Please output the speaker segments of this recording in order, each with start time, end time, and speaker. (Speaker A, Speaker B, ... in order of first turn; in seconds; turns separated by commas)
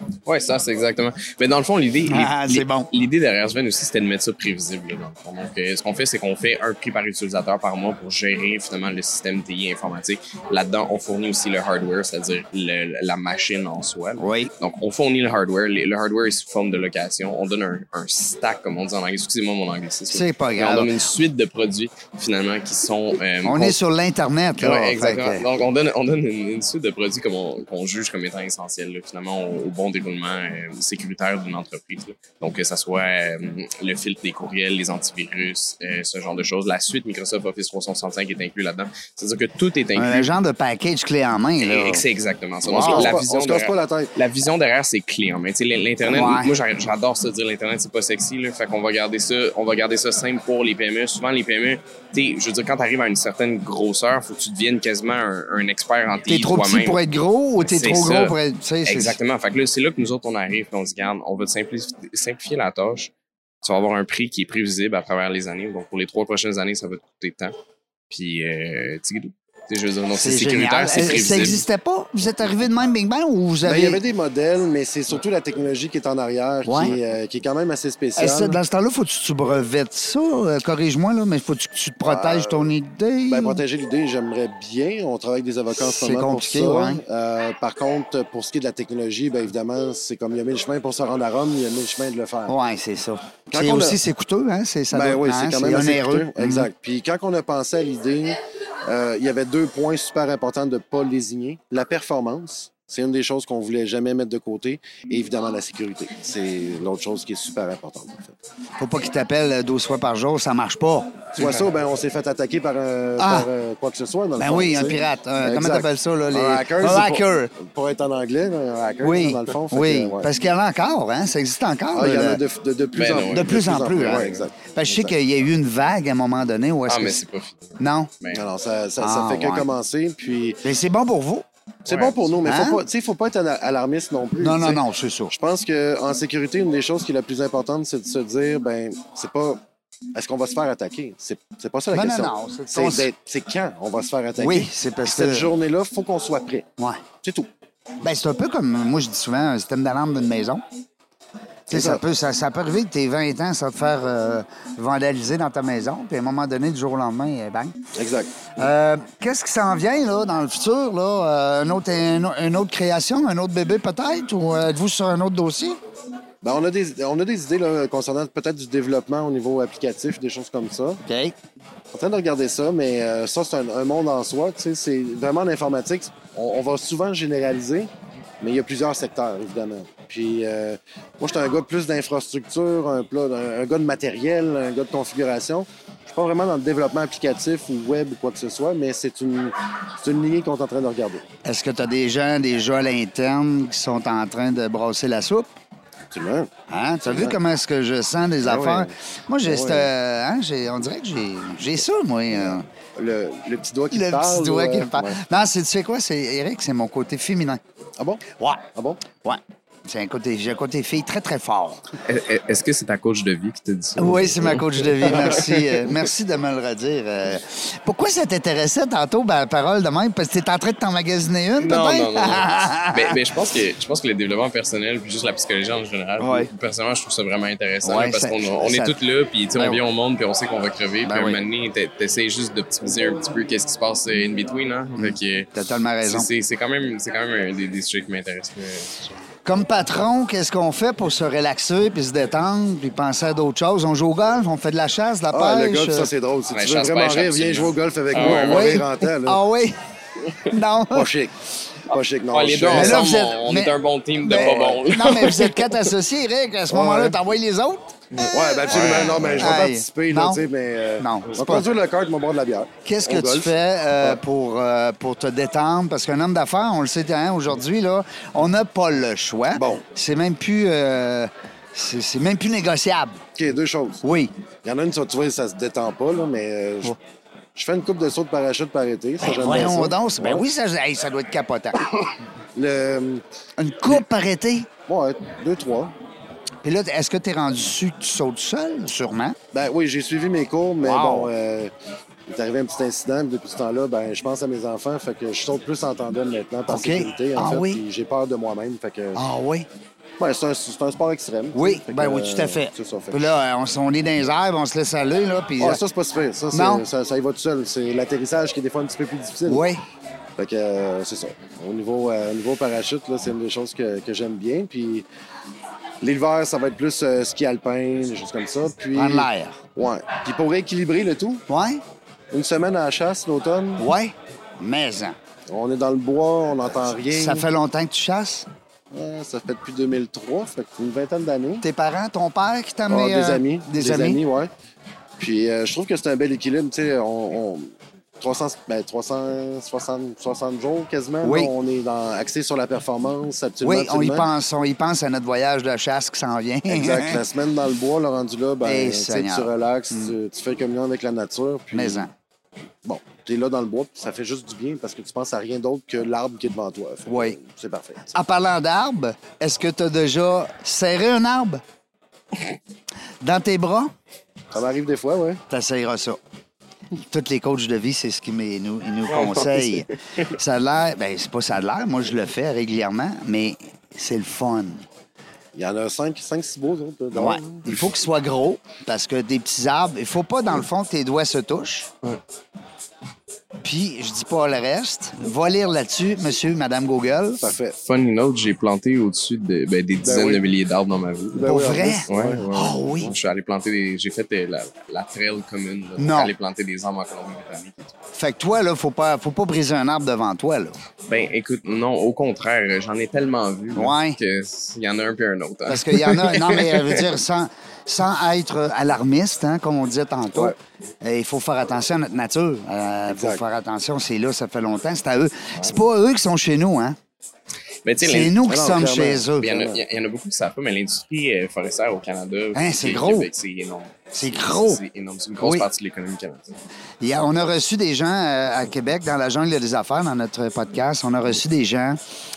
Speaker A: 0.3-23.8, Speaker B: 2.1-2.9, Speaker B: 14.2-14.5, Speaker B: 20.1-20.9, Speaker B: 23.4-25.5, Speaker A: 24.6-40.3, Speaker B: 40.0-42.0, Speaker A: 41.6-57.0, Speaker B: 42.7-43.2, Speaker C: 42.7-44.1, Speaker B: 46.0-46.5, Speaker B: 56.3-59.2, Speaker A: 57.6-67.5, Speaker A: 68.1-71.6, Speaker B: 70.1-74.0, Speaker C: 73.6-78.6, Speaker B: 76.7-77.0, Speaker B: 78.2-83.6, Speaker C: 82.0-82.7, Speaker C: 83.3-92.5, Speaker B: 85.8-87.0, Speaker B: 92.5-96.7, Speaker C: 93.5-94.0, Speaker C: 94.9-108.3, Speaker B: 108.8-111.3, Speaker C: 111.4-120.3, Speaker B: 113.2-113.5, Speaker B: 114.4-117.5, Speaker B: 119.0-122.4, Speaker C: 121.9-125.1, Speaker A: 123.0-124.4, Speaker B: 123.3-127.2, Speaker A: 126.9-128.4, Speaker B: 127.8-128.1, Speaker C: 128.3-130.6, Speaker B: 129.0-129.7, Speaker B: 130.6-131.5, Speaker A: 131.9-132.3, Speaker C: 131.9-139.6, Speaker B: 132.4-132.8, Speaker B: 134.4-135.3, Speaker C: 140.2-146.7, Speaker B: 141.9-143.1, Speaker B: 144.4-145.5, Speaker B: 146.8-147.0, Speaker C: 147.2-147.5, Speaker B: 148.0-150.6, Speaker C: 151.7-152.0, Speaker B: 151.7-157.8, Speaker C: 158.0-158.5, Speaker B: 158.6-165.8, Speaker C: 166.4-171.0, Speaker B: 171.1-171.3, Speaker C: 171.9-177.9, Speaker C: 178.4-191.2, Speaker B: 191.4-195.5, Speaker C: 196.1-196.5, Speaker B: 196.7-202.7, Speaker C: 197.1-197.4, Speaker C: 198.4-198.9, Speaker C: 199.4-199.9, Speaker C: 202.4-205.2, Speaker B: 203.9-207.6, Speaker C: 208.0-208.2, Speaker C: 208.8-209.0, Speaker B: 209.2-211.9, Speaker A: 212.0-215.8, Speaker B: 214.0-223.2, Speaker A: 221.6-239.1, Speaker B: 226.2-226.5, Speaker B: 227.8-229.0, Speaker B: 229.5-229.8, Speaker B: 231.0-231.4, Speaker B: 235.0-236.3, Speaker B: 239.4-246.1, Speaker C: 245.3-249.4, Speaker A: 246.5-248.8, Speaker B: 248.1-249.8, Speaker A: 250.2-250.5, Speaker B: 250.5-251.1, Speaker C: 250.9-251.3, Speaker C: 251.9-253.1, Speaker A: 251.9-255.9, Speaker B: 252.7-257.9, Speaker C: 254.3-254.8, Speaker C: 256.7-257.2, Speaker A: 258.1-259.6, Speaker C: 258.3-264.2, Speaker B: 258.7-260.4, Speaker B: 261.0-261.7, Speaker B: 262.9-273.2, Speaker C: 269.5-269.9, Speaker C: 273.4-274.0, Speaker B: 274.0-274.3, Speaker C: 274.6-277.0, Speaker C: 277.6-280.4, Speaker B: 279.2-281.9, Speaker C: 282.6-283.2, Speaker B: 283.6-284.7, Speaker C: 284.9-285.9, Speaker B: 286.6-289.4, Speaker C: 289.5-291.7, Speaker B: 290.8-291.3, Speaker C: 292.3-299.3, Speaker B: 296.7-297.8, Speaker B: 299.1-299.7, Speaker C: 300.2-303.3, Speaker B: 301.5-305.8, Speaker C: 305.6-309.6, Speaker B: 306.5-306.9, Speaker B: 309.5-309.8, Speaker C: 310.4-315.1, Speaker C: 316.0-321.4, Speaker B: 318.9-319.6, Speaker B: 321.5-321.8, Speaker C: 322.3-323.9, Speaker B: 323.8-325.2, Speaker C: 325.5-327.5, Speaker B: 327.1-328.5, Speaker C: 328.9-331.6, Speaker B: 331.6-334.2, Speaker C: 332.9-334.5, Speaker C: 335.2-344.3, Speaker B: 341.2-341.5, Speaker B: 343.6-347.3, Speaker C: 346.7-352.1, Speaker B: 348.6-350.1, Speaker B: 351.7-352.1, Speaker C: 352.9-358.1, Speaker B: 357.1-357.4, Speaker B: 358.1-361.6, Speaker B: 363.2-363.9, Speaker C: 364.5-365.4, Speaker B: 365.5-366.2, Speaker B: 367.0-374.9, Speaker A: 369.1-369.9, Speaker C: 375.6-377.9, Speaker B: 377.1-381.9, Speaker B: 383.6-387.4, Speaker C: 387.4-387.8, Speaker A: 387.8-391.6, Speaker C: 390.0-390.4, Speaker C: 391.3-393.1, Speaker B: 391.4-393.1, Speaker A: 392.1-397.9, Speaker B: 396.0-396.3, Speaker B: 398.1-400.8, Speaker A: 401.1-407.1, Speaker B: 403.8-404.2, Speaker B: 405.7-417.0, Speaker C: 413.1-413.4, Speaker A: 417.9-418.4, Speaker B: 418.0-419.5, Speaker C: 418.4-419.8, Speaker A: 419.4-426.6, Speaker B: 422.5-423.3, Speaker B: 424.1-424.8, Speaker B: 425.4-425.7, Speaker B: 427.0-432.0